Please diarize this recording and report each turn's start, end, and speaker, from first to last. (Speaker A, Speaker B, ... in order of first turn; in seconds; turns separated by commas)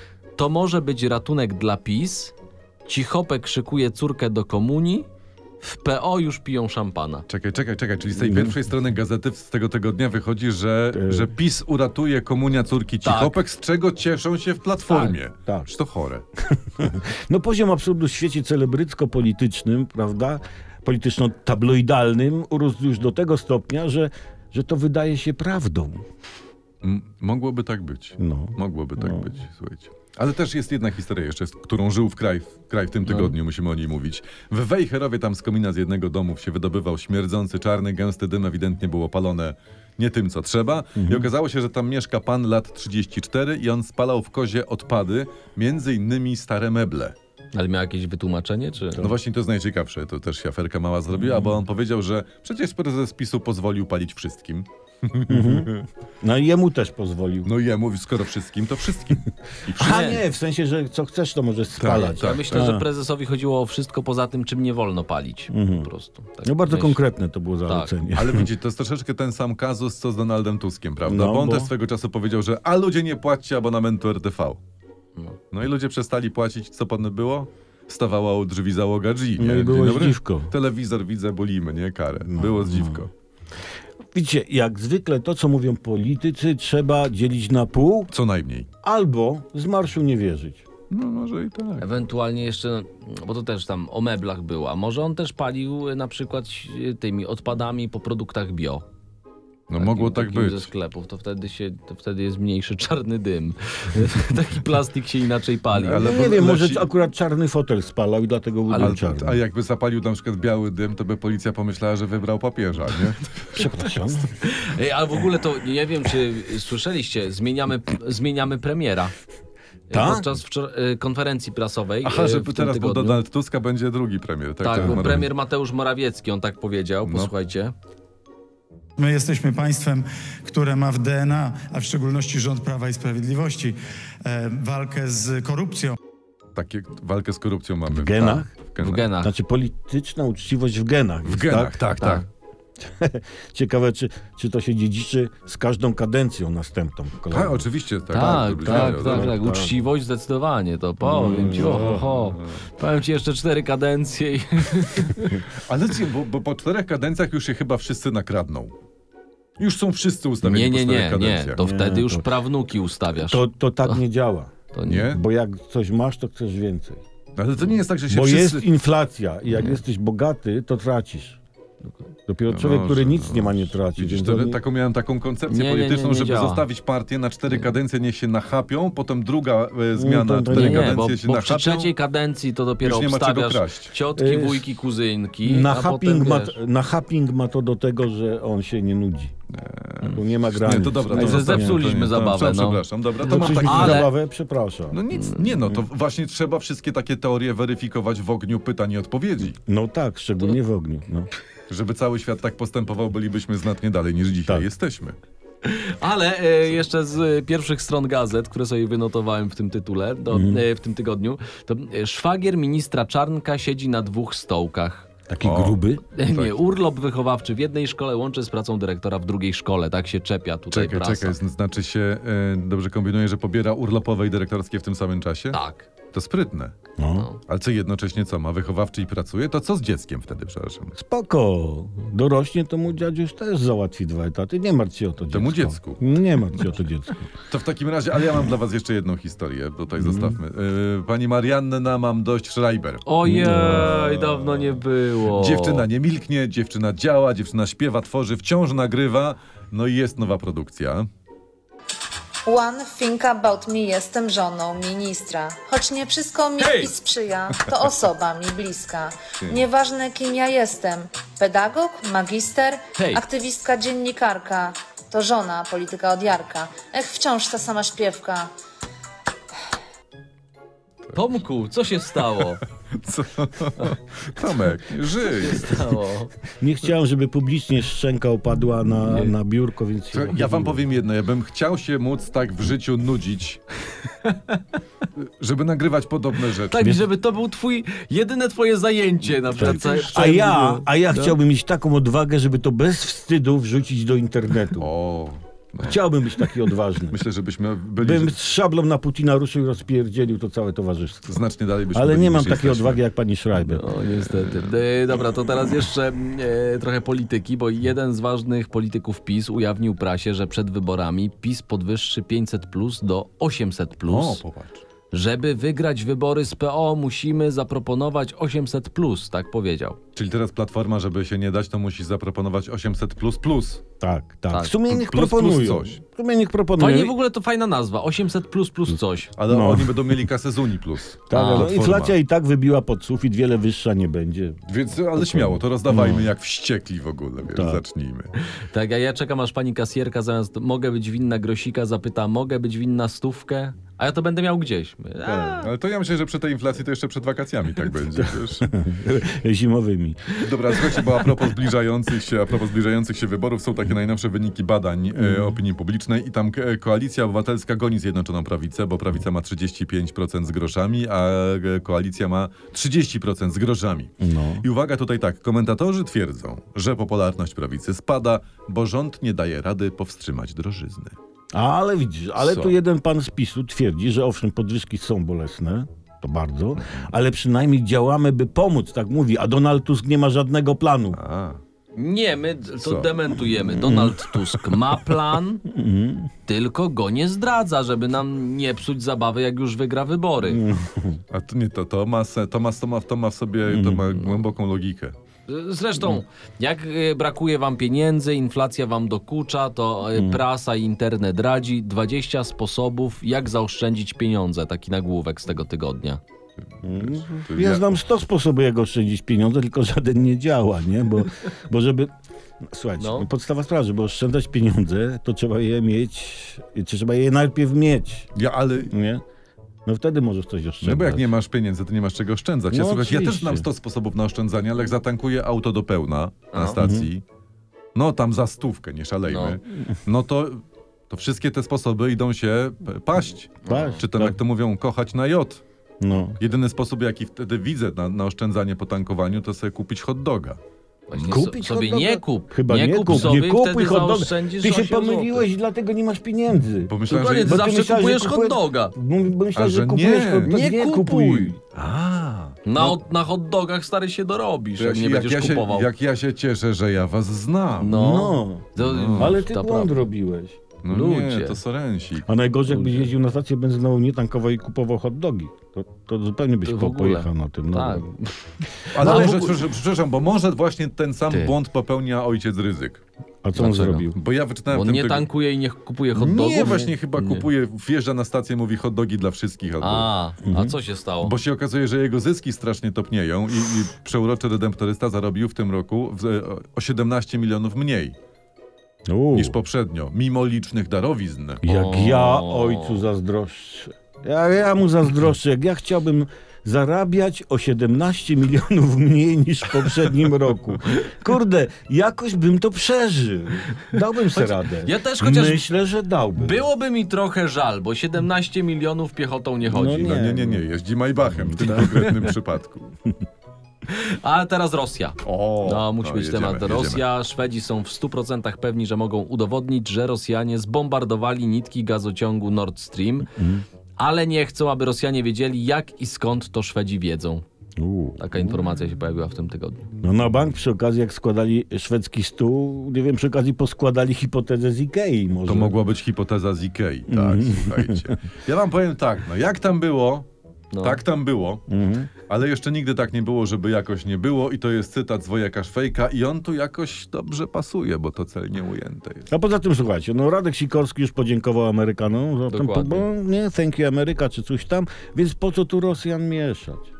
Speaker A: 0.4-2.3, Speaker A: 2.9-5.1, Speaker A: 5.6-7.2, Speaker B: 7.3-16.2, Speaker C: 8.2-8.6, Speaker C: 10.9-11.3, Speaker A: 13.0-13.4, Speaker A: 14.9-15.1, Speaker C: 16.8-26.0, Speaker B: 26.8-47.1, Speaker C: 28.2-29.3, Speaker C: 41.0-41.3, Speaker A: 47.5-49.0, Speaker B: 49.0-55.9, Speaker C: 51.2-51.5, Speaker C: 55.3-57.5, Speaker B: 57.4-60.2, Speaker C: 59.7-62.9, Speaker A: 59.8-60.1, Speaker B: 61.8-62.7, Speaker A: 61.9-67.0, Speaker C: 65.5-65.9, Speaker C: 66.4-68.5, Speaker B: 68.1-74.6, Speaker C: 71.0-71.7, Speaker B: 75.5-83.1, Speaker C: 79.4-80.5, Speaker C: 82.3-83.0, Speaker C: 84.1-88.1, Speaker B: 88.1-88.7, Speaker C: 88.8-90.6, Speaker B: 90.9-91.9, Speaker A: 91.8-98.8, Speaker B: 99.7-100.7, Speaker A: 99.8-106.1, Speaker B: 105.8-106.9, Speaker C: 105.8-109.4, Speaker B: 108.7-113.7, Speaker C: 113.5-114.3, Speaker A: 114.4-119.1, Speaker A: 119.9-123.2, Speaker C: 119.9-120.3, Speaker B: 122.0-125.3, Speaker A: 124.6-127.7, Speaker C: 124.8-125.2, Speaker B: 127.0-127.3, Speaker D: 129.0-135.9, Speaker B: 136.5-139.1, Speaker C: 137.9-138.5, Speaker A: 138.8-139.3, Speaker C: 139.2-141.8, Speaker B: 141.2-142.2, Speaker A: 142.0-142.2, Speaker C: 142.8-149.7, Speaker B: 147.3-149.3, Speaker A: 148.1-155.4, Speaker C: 151.0-152.1, Speaker B: 151.5-152.6, Speaker B: 155.6-158.7, Speaker B: 159.6-161.6, Speaker A: 160.4-164.0, Speaker C: 161.6-162.2, Speaker C: 163.2-167.0, Speaker A: 164.7-165.1, Speaker B: 164.8-165.2, Speaker B: 167.3-168.7, Speaker C: 168.1-171.4, Speaker C: 172.3-174.6, Speaker B: 172.5-181.9, Speaker A: 175.5-176.6, Speaker C: 179.9-180.9, Speaker A: 180.5-186.6, Speaker B: 182.8-183.9, Speaker C: 184.1-184.7, Speaker C: 185.4-189.3, Speaker B: 189.5-194.1, Speaker C: 190.0-191.9, Speaker A: 191.1-194.1, Speaker C: 193.2-195.0, Speaker B: 194.9-199.6, Speaker A: 195.2-195.4, Speaker C: 199.5-201.3, Speaker B: 201.7-205.2, Speaker A: 205.6-215.1, Speaker C: 210.3-210.6, Speaker C: 215.3-216.0, Speaker B: 215.4-216.6, Speaker A: 216.1-221.3, Speaker B: 220.7-225.6, Speaker A: 225.5-225.9, Speaker B: 226.1-226.7, Speaker C: 227.0-227.3, Speaker A: 227.1-227.4, Speaker B: 227.4-230.9, Speaker C: 230.9-237.3, Speaker B: 235.3-236.7, Speaker B: 237.5-251.1, Speaker C: 240.0-240.4, Speaker A: 243.1-245.8, Speaker C: 243.2-244.0, Speaker E: 252.4-268.5, Speaker A: 263.0-263.2, Speaker A: 271.1-272.6, Speaker B: 272.9-275.9, Speaker A: 275.3-276.3, Speaker C: 276.6-280.8, Speaker B: 280.1-283.6, Speaker A: 284.2-284.6, Speaker B: 285.2-287.0, Speaker A: 286.7-291.4, Speaker B: 289.5-290.2, Speaker C: 289.5-294.9, Speaker B: 294.8-296.0, Speaker C: 295.8-297.2, Speaker B: 297.1-298.3, Speaker C: 298.0-301.4, Speaker B: 301.3-303.0, Speaker C: 301.9-303.8, Speaker A: 303.6-314.4, Speaker B: 304.3-304.7, Speaker B: 314.1-314.8, Speaker A: 315.1-320.0, Speaker B: 320.1-323.8, Speaker C: 324.0-327.1, Speaker B: 324.9-326.0, Speaker A: 326.8-329.3, Speaker B: 329.4-332.1, Speaker C: 329.5-330.2, Speaker C: 331.3-334.6, Speaker A: 331.3-331.7, Speaker B: 334.7-338.3, Speaker C: 335.1-336.3, Speaker C: 337.4-337.8, Speaker A: 338.6-345.7, Speaker C: 345.2-345.6, Speaker B: 345.6-348.7, Speaker C: 348.1-350.4, Speaker B: 350.4-371.1, Speaker C: 355.1-355.6, Speaker C: 364.2-364.6, Speaker C: 371.5-381.2, Speaker B: 372.4-372.7, Speaker B: 376.8-377.1, Speaker B: 381.1-381.6, Speaker A: 381.9-385.6, Speaker B: 382.8-383.2, Speaker C: 383.7-384.2, Speaker C: 385.6-386.3, Speaker A: 386.5-390.6, Speaker C: 390.4-391.2, Speaker B: 391.3-395.1, Speaker C: 393.7-394.1, Speaker A: 395.5-406.2, Speaker C: 400.1-400.4, Speaker C: 406.8-412.1, Speaker B: 406.9-407.9, Speaker C: 412.6-418.3, Speaker A: 413.0-413.3, Speaker B: 418.3-418.9, Speaker C: 418.8-419.2, Speaker C: 419.9-421.3, Speaker B: 420.8-427.2, Speaker C: 422.7-423.6, Speaker A: 426.5-426.8, Speaker C: 426.8-427.1, Speaker B: 427.9-435.6, Speaker A: 429.3-429.6, Speaker A: 433.6-434.0, Speaker C: 433.7-434.4, Speaker C: 436.0-436.4, Speaker B: 436.4-440.6, Speaker A: 441.1-445.5, Speaker C: 441.2-451.6, Speaker B: 446.9-447.7, Speaker A: 447.1-448.9, Speaker B: 449.5-450.7, Speaker A: 450.5-451.5, Speaker B: 451.7-452.9, Speaker A: 452.6-455.9, Speaker B: 454.8-458.0, Speaker A: 457.8-460.0, Speaker C: 457.9-460.6, Speaker B: 458.8-459.4, Speaker B: 460.8-462.3, Speaker A: 460.9-461.6, Speaker C: 462.2-468.1, Speaker A: 462.7-463.0, Speaker A: 466.6-469.6, Speaker B: 468.9-473.0, Speaker C: 469.0-469.4, Speaker C: 473.4-474.1, Speaker A: 473.6-474.1, Speaker B: 474.1-475.3, Speaker A: 474.7-477.4, Speaker B: 476.1-480.1, Speaker A: 479.8-481.3, Speaker C: 480.4-480.7, Speaker B: 481.2-488.1, Speaker C: 489.1-489.6, Speaker B: 489.3-491.6, Speaker C: 491.6-506.6, Speaker A: 491.6-493.0, Speaker A: 504.3-505.6, Speaker A: 506.4-510.2, Speaker C: 509.7-510.6, Speaker B: 510.0-512.9, Speaker C: 511.3-512.1, Speaker A: 511.6-512.1, Speaker A: 513.9-523.3, Speaker B: 515.2-517.0, Speaker C: 523.3-523.6, Speaker A: 524.0-527.4, Speaker C: 527.8-528.6, Speaker A: 528.2-529.9, Speaker C: 530.0-535.8, Speaker B: 535.5-540.3, Speaker C: 537.1-538.1, Speaker A: 540.7-541.0, Speaker B: 540.8-541.6, Speaker C: 541.7-542.1, Speaker B: 542.3-549.3, Speaker C: 549.3-556.9, Speaker A: 552.5-553.1